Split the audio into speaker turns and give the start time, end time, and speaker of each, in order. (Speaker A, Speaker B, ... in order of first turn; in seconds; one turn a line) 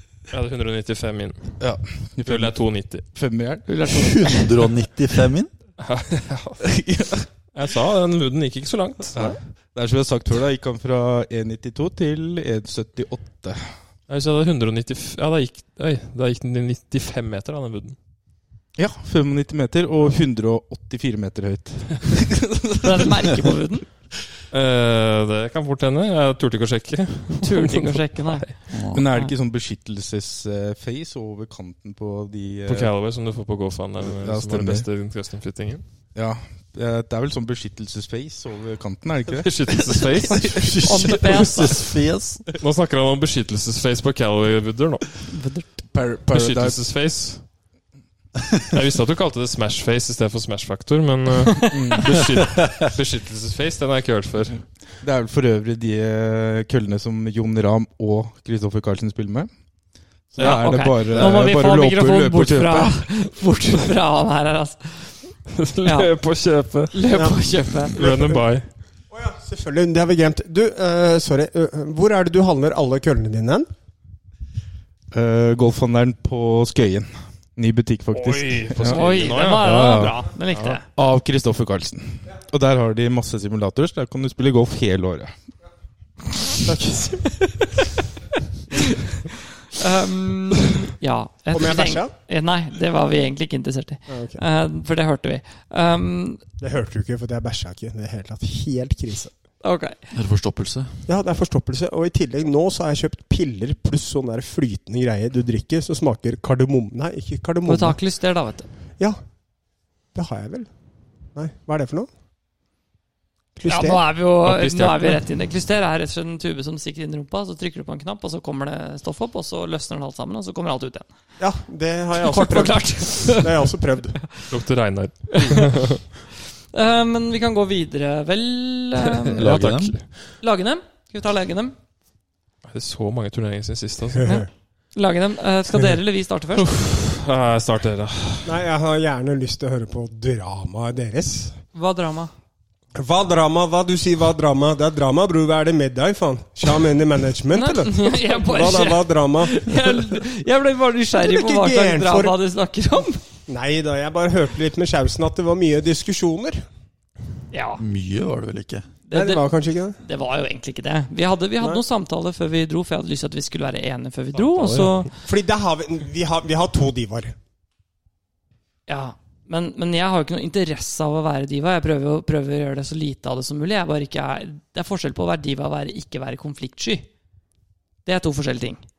Speaker A: 0.3-1.6
Speaker B: 1.6-3.8
Speaker A: 2.2-3.1
Speaker C: 3.7-4.5
Speaker D: 4.2-5.5
Speaker A: 5.8-6.6
Speaker B: 6.6-7.3
Speaker A: 7.5-9.3
Speaker B: 9.2-13.7
Speaker A: 14.1-18.0
Speaker B: 18.8-23.5
Speaker C: 22.8-23.9
Speaker A: 24.5-28.6
Speaker C: 27.4-29.3
Speaker D: 28.7-29.1
Speaker B: 28.9-32.9
Speaker A: 32.7-35.9
Speaker B: 34.0-34.9
Speaker B: 36.1-39.7
Speaker A: 39.3-41.1
Speaker B: 40.2-40.6
Speaker D: 40.6-42.4
Speaker C: 40.8-41.8
Speaker A: 42.6-45.3
Speaker C: 45.3-45.8
Speaker B: 45.9-46.8
Speaker A: 46.3-47.5
Speaker A: 48.7-54.8
Speaker C: 51.5-52.0
Speaker B: 51.7-52.8
Speaker B: 55.0-59.5
Speaker B: 60.3-63.1
Speaker C: 60.4-65.2
Speaker A: 65.5-67.1
Speaker C: 65.8-66.1
Speaker C: 66.9-68.0
Speaker E: 67.2-67.4
Speaker A: 67.9-68.7
Speaker E: 67.9-68.4
Speaker E: 69.1-73.7
Speaker B: 75.1-80.3
Speaker A: 78.1-79.8
Speaker C: 78.9-80.9
Speaker A: 80.5-80.8
Speaker B: 80.9-85.3
Speaker E: 86.6-87.4
Speaker C: 87.4-87.7
Speaker C: 89.7-96.4
Speaker E: 91.5-92.1
Speaker E: 94.1-94.4
Speaker E: 96.6-99.3
Speaker C: 99.6-100.1
Speaker D: 100.1-101.0
Speaker E: 101.1-108.0
Speaker C: 107.7-108.7
Speaker E: 110.1-110.7
Speaker E: 111.3-112.1
Speaker E: 113.6-114.0
Speaker C: 113.7-121.1
Speaker A: 114.4-115.2
Speaker E: 121.4-124.2
Speaker C: 122.2-123.5
Speaker A: 124.5-126.0
Speaker C: 125.3-125.8
Speaker C: 126.7-129.5
Speaker A: 129.3-130.3
Speaker D: 129.4-130.0
Speaker C: 130.4-131.8
Speaker A: 132.7-134.4
Speaker E: 134.2-134.5
Speaker C: 134.2-136.7
Speaker A: 136.6-138.6
Speaker E: 138.4-141.6
Speaker C: 141.7-142.3
Speaker E: 142.9-149.6
Speaker C: 147.5-153.2
Speaker E: 151.2-152.4
Speaker E: 153.5-156.7
Speaker C: 157.5-157.8
Speaker D: 157.8-158.9
Speaker C: 159.1-159.5
Speaker E: 159.1-160.0
Speaker C: 160.0-165.1
Speaker A: 164.4-164.9
Speaker E: 164.8-167.3
Speaker C: 168.9-177.1
Speaker C: 178.1-178.8